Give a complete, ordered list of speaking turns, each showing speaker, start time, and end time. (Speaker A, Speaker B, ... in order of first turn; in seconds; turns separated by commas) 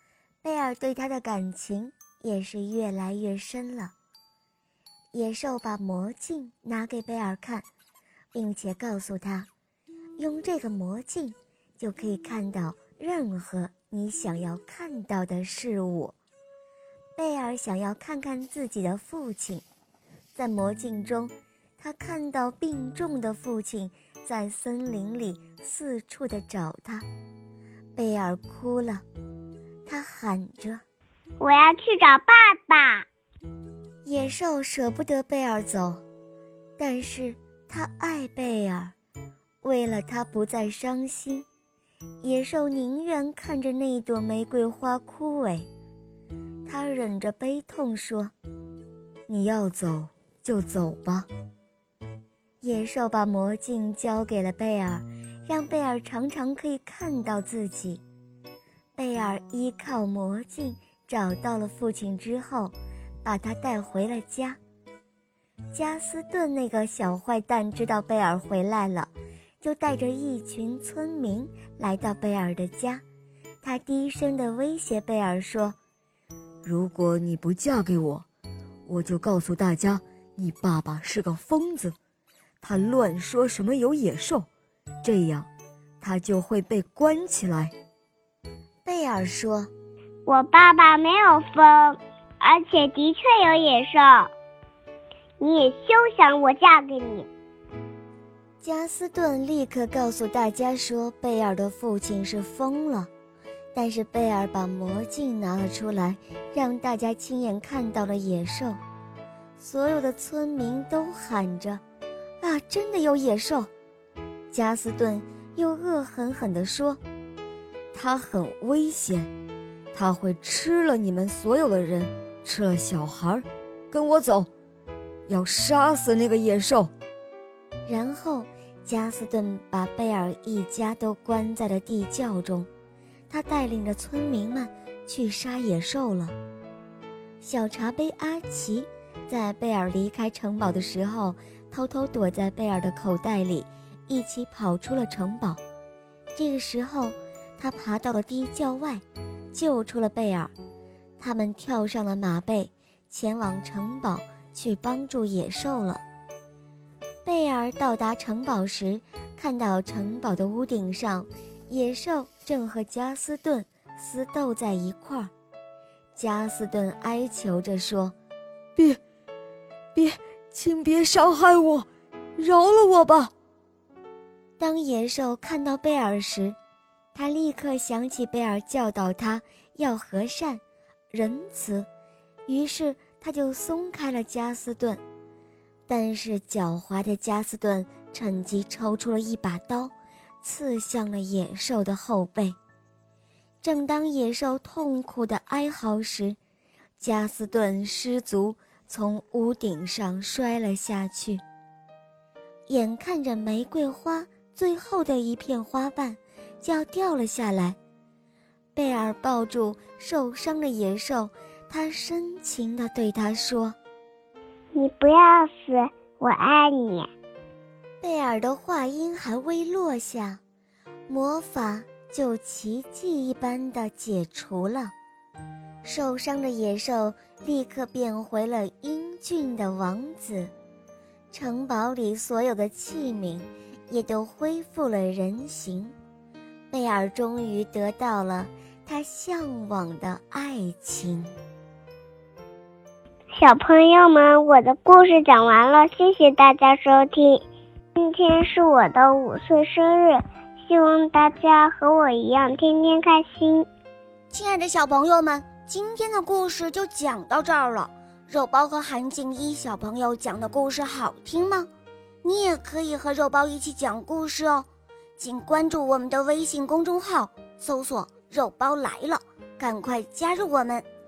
Speaker A: 0.4-3.9, Speaker A: 5.1-7.7, Speaker A: 8.3-9.5, Speaker A: 10.2-16.1, Speaker A: 17.1-19.6, Speaker A: 20.3-27.0, Speaker A: 27.9-29.0, Speaker A: 29.9-30.8, Speaker B: 31.4-33.0, Speaker A: 34.0-36.0, Speaker A: 36.8-38.9, Speaker A: 39.6-41.5, Speaker A: 42.2-45.7, Speaker A: 46.6-48.3, Speaker A: 49.3-51.3, Speaker A: 52.6-58.0, Speaker A: 59.0-64.6, Speaker A: 65.7-73.0, Speaker A: 73.6-75.8, Speaker C: 76.6-78.2, Speaker C: 78.8-82.0, Speaker C: 82.6-84.5, Speaker C: 85.0-85.5, Speaker C: 86.0-87.7, Speaker A: 88.8-89.7, Speaker B: 90.2-94.3, Speaker B: 95.4-97.3, Speaker A: 98.6-103.1, Speaker A: 103.7-108.8, Speaker A: 109.6-111.8, Speaker A: 112.4-113.7, Speaker A: 114.5-117.0, Speaker C: 117.9-119.3, Speaker C: 119.9-124.5, Speaker C: 125.3-126.9, Speaker A: 127.8-132.7, Speaker A: 133.3-136.3, Speaker A: 137.4-145.6, Speaker A: 146.3-150.5, Speaker A: 151.2-156.0, Speaker A: 157.2-165.3, Speaker A: 166.1-168.1, Speaker C: 169.9-173.3, Speaker A: 174.6-176.6, Speaker A: 177.1-181.9, Speaker A: 182.5-185.0, Speaker A: 185.9-192.6, Speaker A: 193.6-196.4, Speaker A: 197.0-201.4, Speaker A: 202.7-207.8, Speaker A: 208.7-213.8, Speaker B: 214.7-217.1, Speaker A: 218.0-220.4, Speaker A: 221.1-224.9, Speaker A: 225.8-230.5, Speaker A: 231.3-235.9, Speaker A: 236.7-241.3, Speaker B: 243.3-247.4, Speaker B: 248.0-253.7, Speaker D: 254.3-261.7, Speaker D: 262.2-264.7, Speaker D: 265.2-270.8